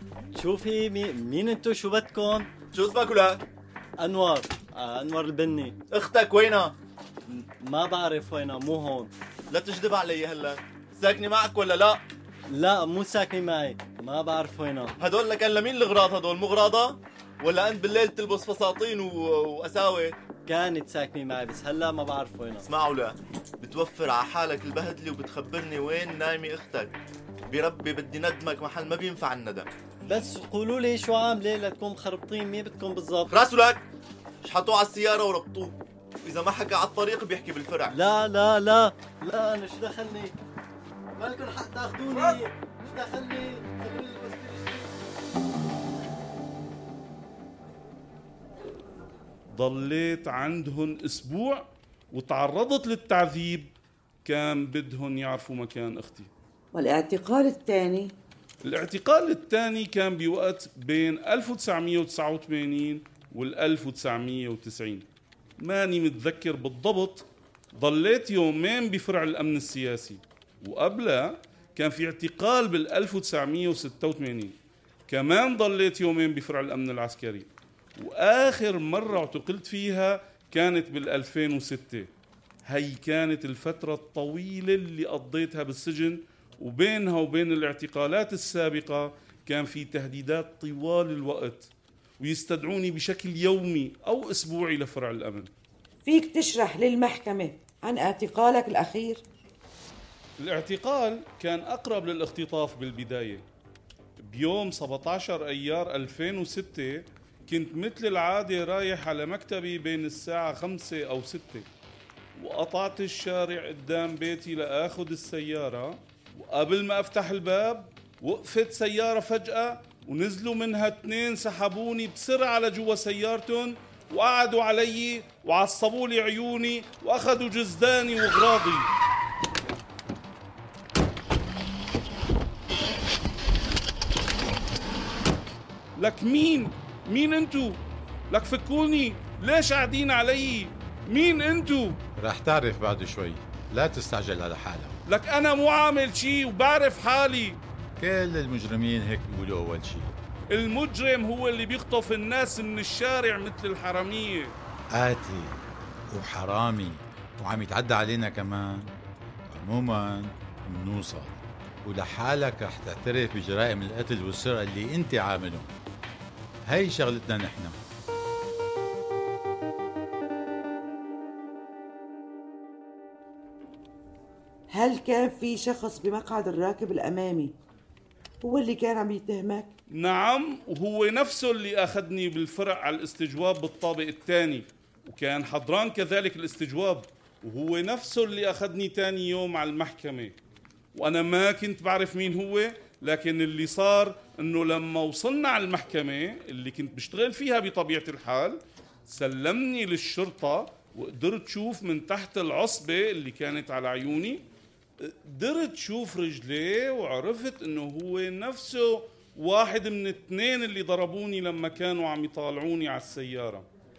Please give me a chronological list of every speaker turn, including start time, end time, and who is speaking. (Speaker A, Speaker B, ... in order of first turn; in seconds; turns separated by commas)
Speaker A: 0.3-2.5, Speaker B: 2.7-3.4, Speaker A: 4.0-5.8, Speaker B: 5.9-6.7, Speaker A: 7.3-9.1, Speaker B: 9.5-12.0, Speaker A: 12.5-14.9, Speaker B: 15.0-20.1, Speaker A: 20.5-22.7, Speaker B: 22.7-26.9, Speaker B: 27.5-29.7, Speaker A: 30.1-33.4, Speaker B: 33.3-33.8, Speaker B: 34.4-37.9, Speaker A: 37.8-40.3, Speaker A: 41.2-44.9, Speaker C: 49.6-53.7, Speaker C: 54.2-56.3, Speaker D: 56.7-58.1, Speaker C: 58.6-65.0, Speaker C: 65.6-74.5, Speaker C: 75.1-82.1, Speaker C: 82.7-91.7, Speaker C: 92.2-95.5, Speaker D: 96.0-99.2, Speaker C: 100.4-103.4, Speaker C: 104.2-111.7, Speaker C: 112.4-128.9, Speaker C: 136.0-137.8, Speaker C: 138.3-142.0, Speaker E: 142.2-144.9, Speaker C: 145.1-147.6, Speaker E: 148.0-150.2, Speaker C: 150.5-154.5, Speaker E: 154.9-155.6, Speaker E: 156.1-158.9, Speaker E: 159.5-165.7, Speaker E: 166.7-167.8, Speaker D: 174.7-177.5, Speaker D: 178.4-179.7, Speaker C: 179.9-190.3, Speaker C: 190.9-204.4, Speaker C: 205.0-213.7